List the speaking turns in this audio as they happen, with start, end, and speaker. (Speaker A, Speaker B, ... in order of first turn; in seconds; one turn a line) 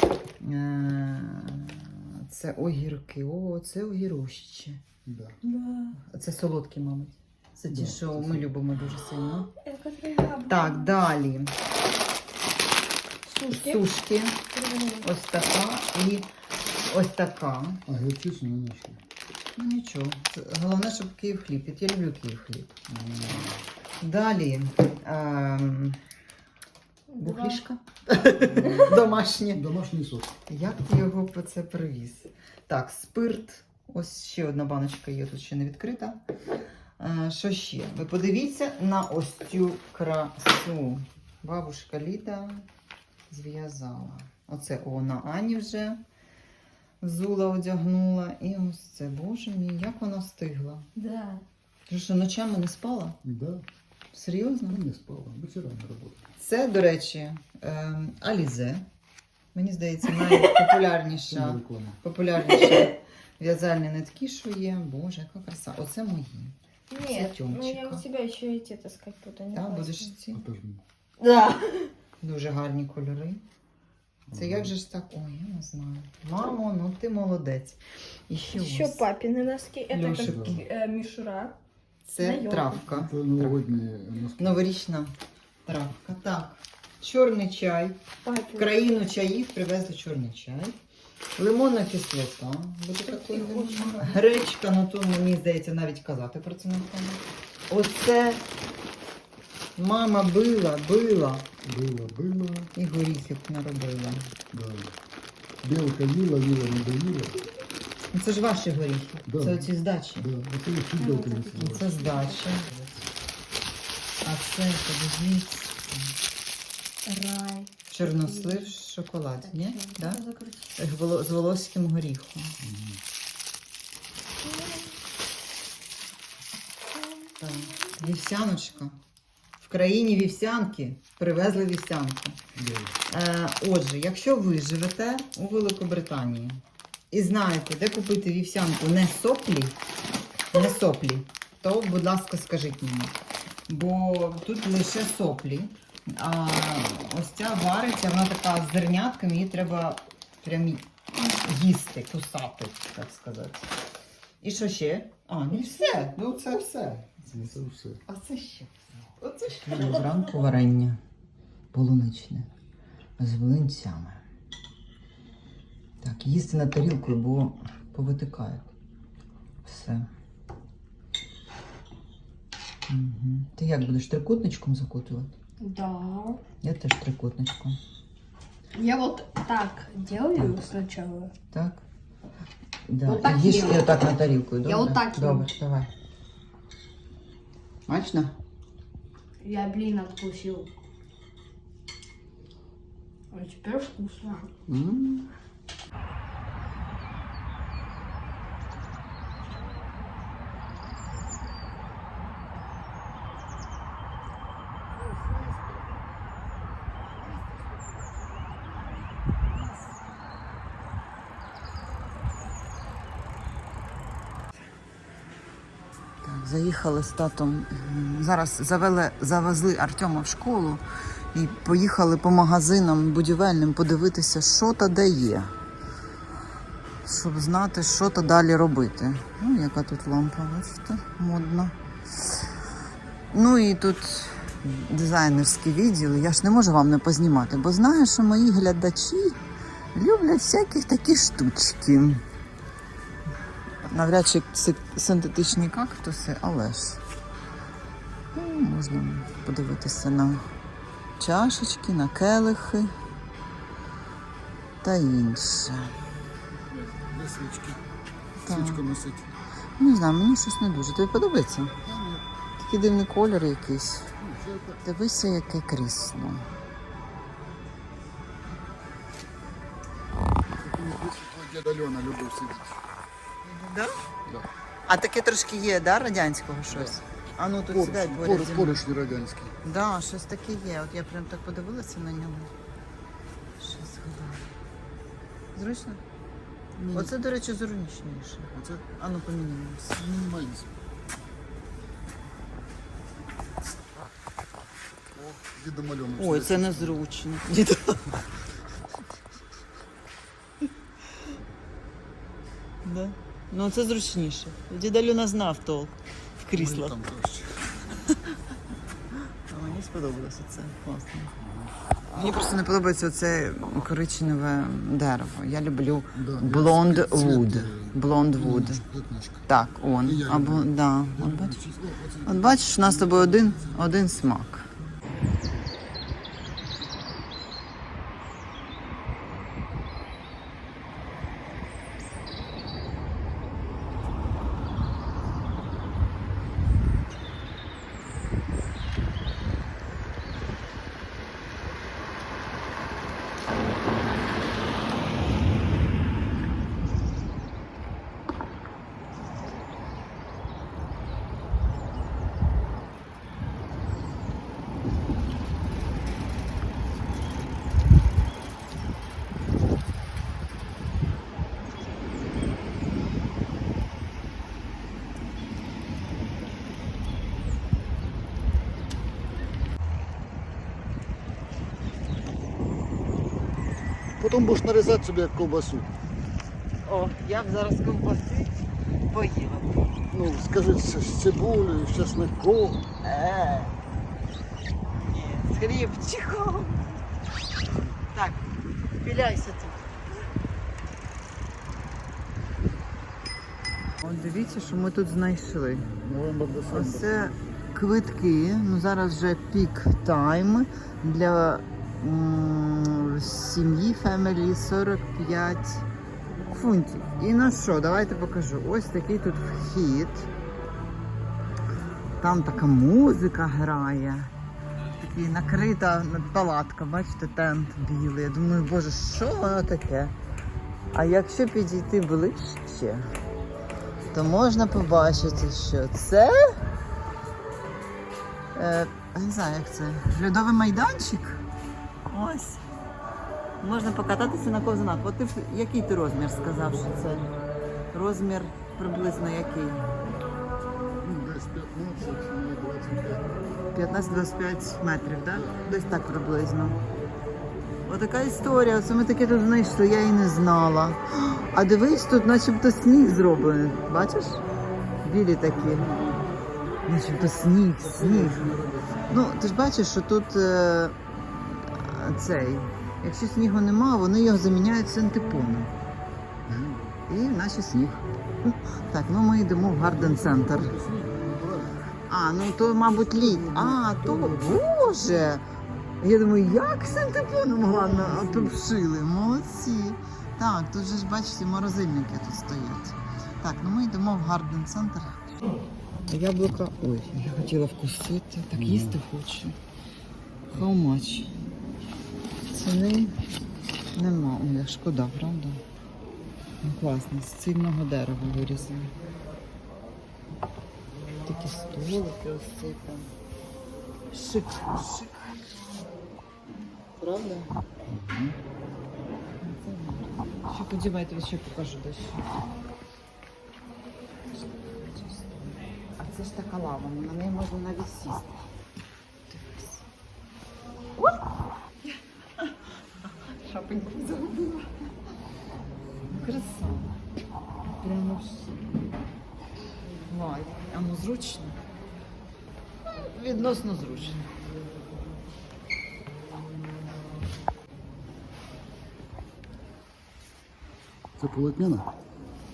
Speaker A: 0.4-4.8
Speaker B: 5.0-5.4
Speaker C: 5.4-6.0
Speaker A: 5.9-9.5
Speaker B: 7.7-8.5
Speaker C: 9.5-10.9
Speaker A: 10.5-11.5
Speaker C: 13.3-13.9
Speaker A: 13.5-14.4
Speaker C: 14.5-15.1
Speaker A: 15.0-16.3
Speaker A: 16.9-17.8
Speaker B: 17.9-19.0
Speaker A: 19.6-22.8
Speaker B: 22.9-23.6
Speaker A: 24.0-26.0
Speaker C: 27.1-27.6
Speaker A: 27.2-29.6
Speaker B: 28.1-30.3
Speaker A: 30.5-36.2
Speaker A: 37.0-42.7
Speaker A: 43.3-46.0
Speaker A: 47.0-50.9
Speaker C: 51.0-51.4
Speaker A: 51.9-53.2
Speaker B: 53.2-53.6
Speaker A: 54.1-54.8
Speaker B: 54.7-56.2
Speaker A: 56.4-58.9
Speaker A: 59.5-68.1
Speaker B: 61.3-62.0
Speaker C: 66.9-70.1
Speaker A: 69.5-70.4
Speaker B: 70.3-70.8
Speaker C: 71.2-71.9
Speaker A: 72.2-73.4
Speaker B: 74.3-74.7
Speaker A: 74.3-79.1
Speaker C: 78.5-81.5
Speaker A: 79.9-80.6
Speaker B: 80.2-80.6
Speaker A: 82.1-83.7
Speaker C: 82.2-82.8
Speaker B: 82.9-84.7
Speaker A: 84.4-88.0
Speaker C: 88.2-88.7
Speaker A: 88.5-90.8
Speaker A: 91.4-98.4
Speaker C: 93.0-94.2
Speaker A: 99.8-101.5
Speaker B: 101.6-102.7
Speaker A: 102.8-104.3
Speaker B: 104.5-104.9
Speaker B: 105.6-107.4
Speaker A: 108.1-110.3
Speaker B: 109.3-109.7
Speaker B: 110.2-111.9
Speaker C: 111.0-112.9
Speaker A: 111.5-112.9
Speaker A: 114.2-116.1
Speaker C: 117.1-118.7
Speaker A: 117.9-120.2
Speaker C: 119.4-120.7
Speaker A: 120.8-122.6
Speaker B: 122.6-123.0
Speaker C: 124.5-124.8
Speaker A: 127.4-129.0
Speaker A: 129.6-132.4
Speaker B: 132.6-132.9
Speaker A: 133.1-139.8
Speaker A: 140.5-143.2
Speaker A: 143.7-153.7
Speaker A: 154.4-161.0
Speaker B: 157.3-158.0
Speaker B: 159.6-160.0
Speaker A: 161.7-162.5
Speaker A: 163.2-164.2
Speaker A: 166.0-168.7
Speaker A: 169.7-170.1
Speaker A: 172.9-175.3
Speaker C: 175.6-176.4
Speaker A: 176.6-177.8
Speaker C: 178.8-181.3
Speaker A: 180.4-180.6
Speaker A: 181.5-181.8
Speaker A: 182.9-185.9
Speaker C: 183.1-185.5
Speaker A: 187.9-188.3
Speaker C: 189.4-190.7
Speaker C: 193.3-194.5
Speaker B: 194.7-195.1
Speaker A: 194.9-195.2
Speaker A: 216.2-220.8
Speaker A: 221.3-225.5
Speaker A: 227.1-232.4
Speaker A: 233.3-239.4
Speaker A: 239.9-242.2
Speaker A: 243.8-247.0
Speaker A: 248.3-250.4
Speaker A: 251.2-252.9
Speaker A: 254.8-255.9
Speaker B: 257.1-257.8
Speaker A: 258.4-258.9
Speaker B: 258.5-259.4
Speaker A: 259.8-261.7
Speaker B: 261.8-262.3
Speaker A: 262.6-264.1
Speaker B: 264.2-264.9
Speaker A: 264.8-266.5
Speaker B: 270.6-272.8
Speaker A: 273.4-274.0
Speaker A: 274.9-278.9
Speaker B: 276.7-277.0
Speaker B: 277.7-279.6
Speaker A: 279.6-282.5
Speaker A: 283.6-284.6
Speaker A: 285.5-286.0
Speaker B: 286.8-287.1
Speaker A: 286.9-290.1
Speaker B: 288.5-288.8
Speaker B: 290.0-290.8
Speaker B: 295.1-297.0
Speaker A: 296.2-298.0
Speaker A: 302.8-307.0
Speaker B: 306.5-307.9
Speaker A: 309.5-311.3
Speaker B: 311.4-311.7
Speaker A: 312.1-318.8
Speaker B: 316.1-319.5
Speaker A: 319.5-321.6
Speaker B: 320.0-324.2
Speaker A: 322.3-324.7
Speaker B: 374.2-375.9
Speaker A: 376.8-379.9
Speaker B: 380.1-382.8
Speaker A: 383.0-383.7
Speaker A: 385.0-386.8
Speaker B: 387.7-388.0
Speaker A: 388.1-388.4
Speaker A: 389.0-389.9
Speaker A: 394.0-395.9
Speaker B: 396.0-397.6
Speaker A: 396.7-405.9
Speaker A: 406.5-410.3
Speaker A: 412.2-414.3
Speaker A: 415.0-420.1
Speaker A: 420.9-423.1
Speaker A: 424.0-426.4
Speaker A: 428.5-431.4
Speaker A: 432.1-432.7
Speaker A: 433.6-437.3
Speaker A: 437.9-439.9
Speaker B: 441.0-443.5
Speaker A: 443.7-446.8
Speaker B: 445.3-445.6
Speaker A: 447.9-454.4
Speaker A: 455.0-455.9
Speaker B: 455.7-456.4
Speaker A: 456.9-458.5
Speaker B: 457.8-459.2
Speaker A: 459.1-465.7
Speaker B: 466.5-466.9
Speaker A: 467.1-470.7
Speaker B: 469.8-471.9
Speaker A: 472.1-475.4
Speaker B: 472.9-475.2
Speaker A: 476.0-485.2
Speaker B: 478.0-478.6
Speaker A: 486.1-489.6
Speaker B: 488.5-489.0
Speaker A: 490.5-491.3
Speaker A: 492.5-493.2
Speaker A: 493.9-495.6
Speaker A: 496.6-498.9
Speaker A: 501.2-503.1
Speaker A: 504.1-505.3
Speaker A: 507.0-507.5
Speaker B: 507.9-508.4
Speaker A: 509.4-512.3
Speaker A: 514.3-518.5
Speaker A: 519.3-519.8
Speaker A: 521.8-522.5
Speaker A: 523.4-524.7
Speaker A: 526.1-527.0
Speaker A: 527.7-528.9
Speaker A: 530.0-531.6
Speaker A: 533.0-534.3
Speaker B: 541.2-541.9